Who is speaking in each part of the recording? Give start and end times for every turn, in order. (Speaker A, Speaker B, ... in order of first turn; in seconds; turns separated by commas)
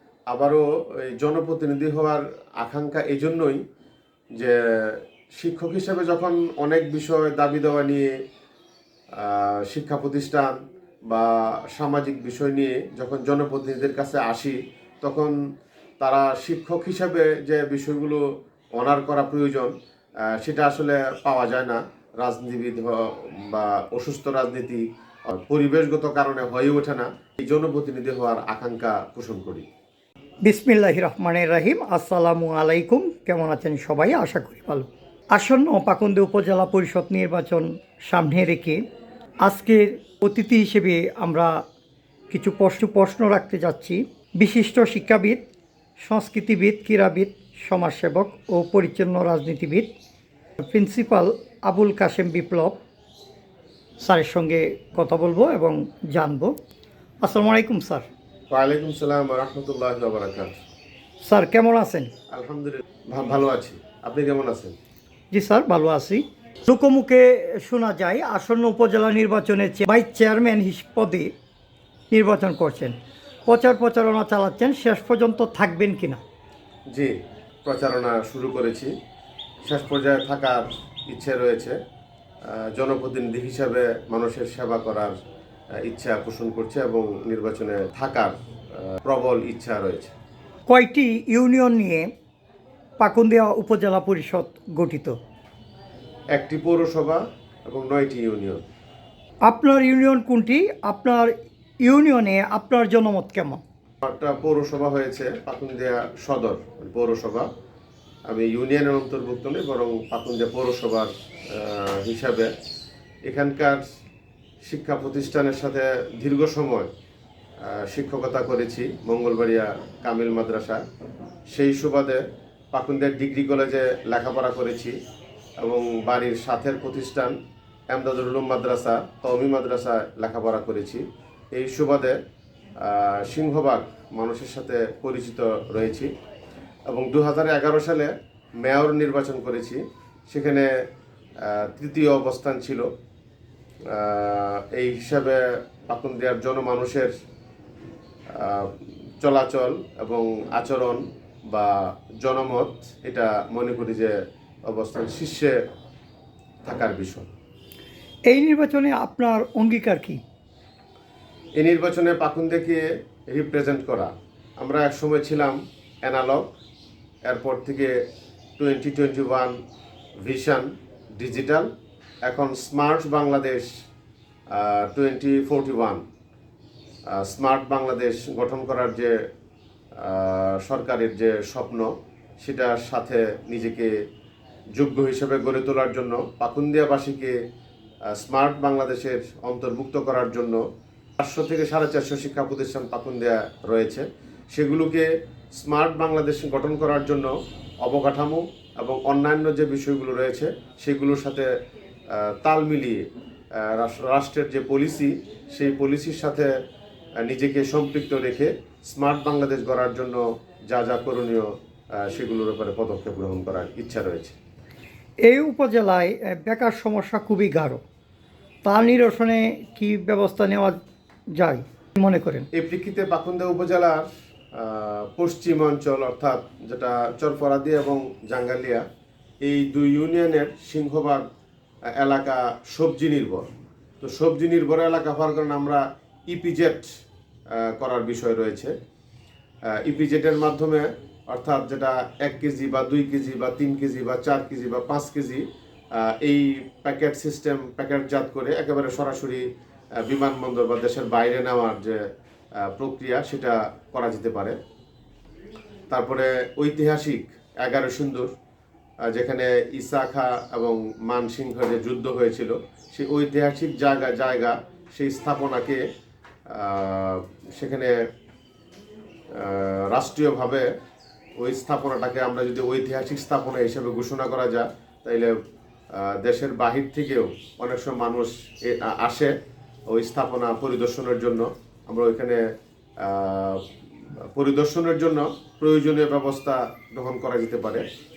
Speaker A: 0.3-3.6, Speaker A: 4.4-8.1, Speaker A: 9.2-15.3, Speaker A: 16.0-18.2, Speaker A: 18.8-19.7, Speaker A: 20.3-29.6, Speaker B: 30.4-38.8, Speaker B: 39.4-41.6, Speaker B: 42.3-45.4, Speaker B: 46.0-49.9, Speaker B: 50.6-52.8, Speaker B: 54.0-56.5, Speaker B: 57.2-58.1, Speaker A: 58.5-60.5, Speaker B: 61.2-62.1, Speaker A: 62.3-64.7, Speaker B: 65.3-71.3, Speaker B: 72.1-76.2, Speaker A: 76.9-78.9, Speaker A: 79.7-81.8, Speaker A: 82.5-85.1, Speaker A: 85.8-90.1, Speaker B: 90.7-92.1, Speaker B: 93.0-95.2, Speaker A: 96.3-98.6, Speaker B: 99.5-101.3, Speaker B: 101.8-103.6, Speaker A: 104.0-107.5, Speaker A: 108.3-112.5, Speaker A: 113.3-113.8, Speaker A: 114.6-116.9, Speaker A: 117.6-120.8, Speaker A: 121.5-125.0, Speaker A: 125.6-127.3, Speaker A: 127.9-132.2, Speaker A: 132.8-136.1, Speaker A: 136.9-138.1, Speaker A: 138.6-140.7, Speaker A: 141.4-142.8, Speaker A: 143.9-147.1, Speaker A: 148.3-154.1, Speaker A: 154.7-155.6, Speaker A: 156.6-157.3, Speaker B: 158.3-160.2, Speaker A: 161.6-166.5, Speaker A: 167.3-167.9, Speaker A: 168.6-169.5, Speaker A: 170.2-170.7, Speaker A: 171.2-171.7, Speaker A: 172.2-173.7, Speaker A: 174.5-176.0, Speaker A: 177.1-179.2, Speaker A: 180.0-183.9, Speaker A: 184.8-187.3, Speaker A: 188.1-190.6, Speaker A: 191.2-201.5, Speaker A: 202.1-203.0, Speaker A: 203.6-206.5, Speaker A: 207.2-214.4, Speaker B: 215.3-217.8, Speaker B: 218.6-220.8, Speaker B: 221.3-222.5, Speaker A: 222.5-228.8, Speaker A: 229.4-231.2, Speaker A: 231.9-233.5, Speaker A: 234.0-236.9, Speaker A: 237.5-238.7, Speaker A: 239.7-245.4, Speaker A: 245.9-249.4, Speaker A: 250.0-252.0, Speaker A: 252.6-254.6, Speaker A: 255.9-258.3, Speaker A: 259.1-265.8, Speaker A: 266.5-267.9, Speaker A: 269.4-270.7, Speaker A: 271.4-275.3, Speaker A: 275.9-279.3, Speaker A: 279.9-282.4, Speaker A: 283.0-283.6, Speaker A: 284.3-287.8